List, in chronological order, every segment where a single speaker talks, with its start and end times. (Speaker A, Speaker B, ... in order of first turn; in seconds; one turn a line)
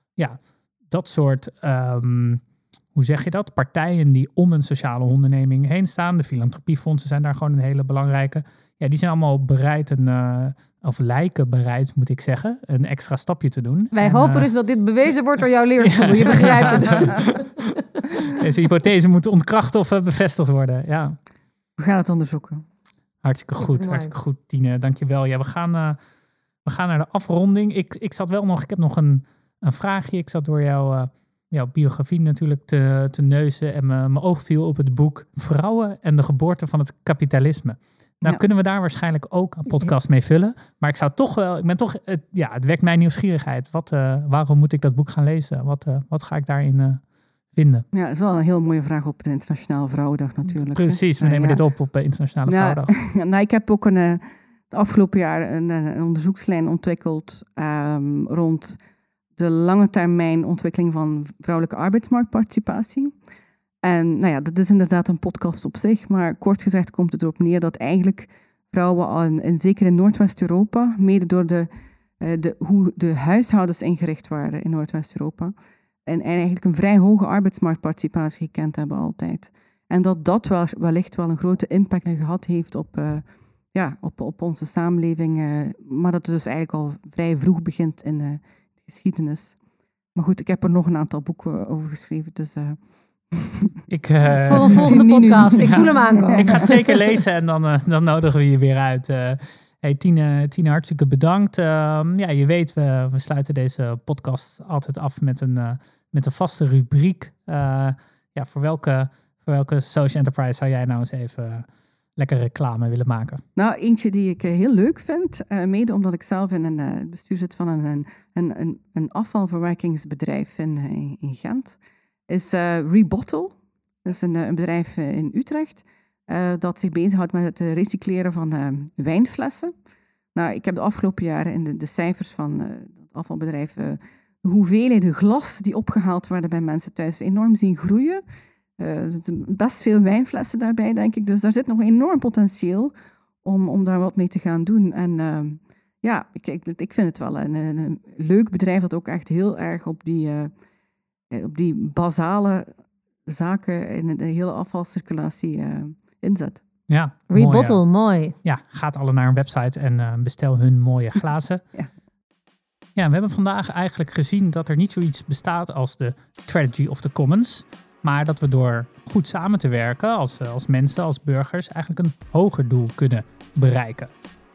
Speaker A: 0.1-2.4
Speaker A: 2.9-14.5
Speaker B: 13.9-17.7
Speaker A: 15.8-17.7
Speaker C: 16.7-17.1
Speaker A: 18.2-21.2
Speaker C: 21.8-22.6
Speaker A: 23.2-26.0
Speaker B: 23.6-24.1
Speaker A: 26.6-47.9
Speaker C: 47.9-51.6
Speaker A: 50.5-52.9
Speaker C: 52.5-58.8
Speaker C: 59.4-63.1
Speaker C: 63.8-71.7
Speaker C: 72.2-75.5
Speaker C: 76.0-89.6
Speaker C: 90.1-93.8
Speaker A: 93.9-113.4
Speaker B: 94.4-97.0
Speaker C: 94.5-96.7
Speaker C: 113.5-129.7
Speaker C: 130.3-138.2
Speaker C: 138.8-150.5
Speaker C: 151.3-152.7
Speaker C: 153.2-156.6
Speaker A: 156.9-157.8
Speaker B: 157.3-158.3
Speaker A: 158.4-161.6
Speaker A: 162.9-174.1